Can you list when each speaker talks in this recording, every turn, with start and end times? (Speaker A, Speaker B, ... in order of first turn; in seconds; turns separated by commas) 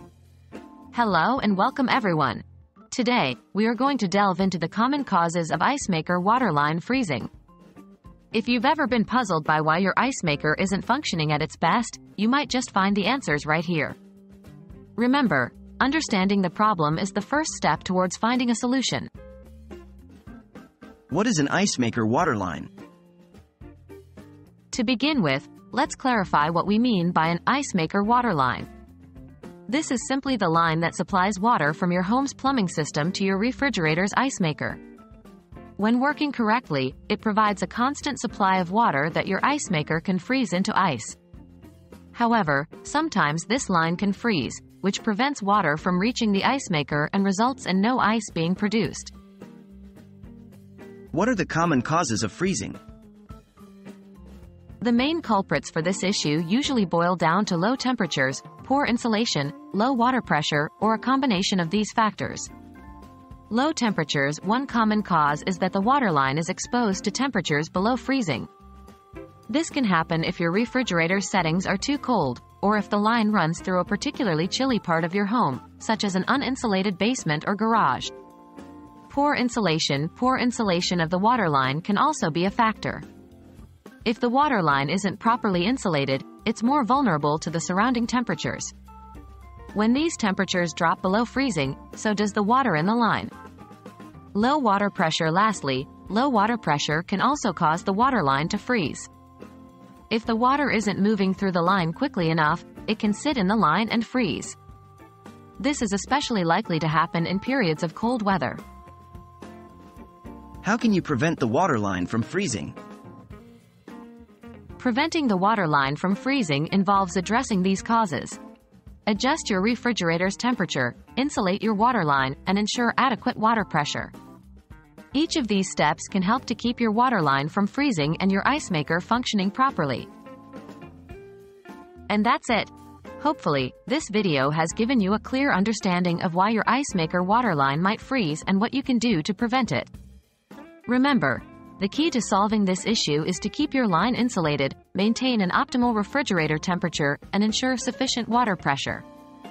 Speaker A: 0.9-7.3, Speaker A: 8.3-14.0, Speaker A: 15.0-19.1, Speaker B: 21.1-22.7, Speaker A: 24.7-28.7, Speaker A: 29.7-34.8, Speaker A: 35.8-41.2, Speaker A: 42.1-49.1, Speaker B: 51.1-52.8, Speaker A: 54.8-62.5, Speaker A: 63.5-68.5, Speaker A: 69.5-78.1, Speaker A: 79.1-83.0, Speaker A: 84.0-88.7, Speaker A: 89.7-93.3, Speaker A: 94.3-99.1, Speaker A: 100.1-104.6, Speaker A: 105.6-108.6, Speaker B: 110.6-112.8, Speaker A: 114.8-118.4, Speaker A: 119.1-124.1, Speaker A: 125.1-130.1, Speaker A: 132.1-139.9, Speaker A: 140.9-149.0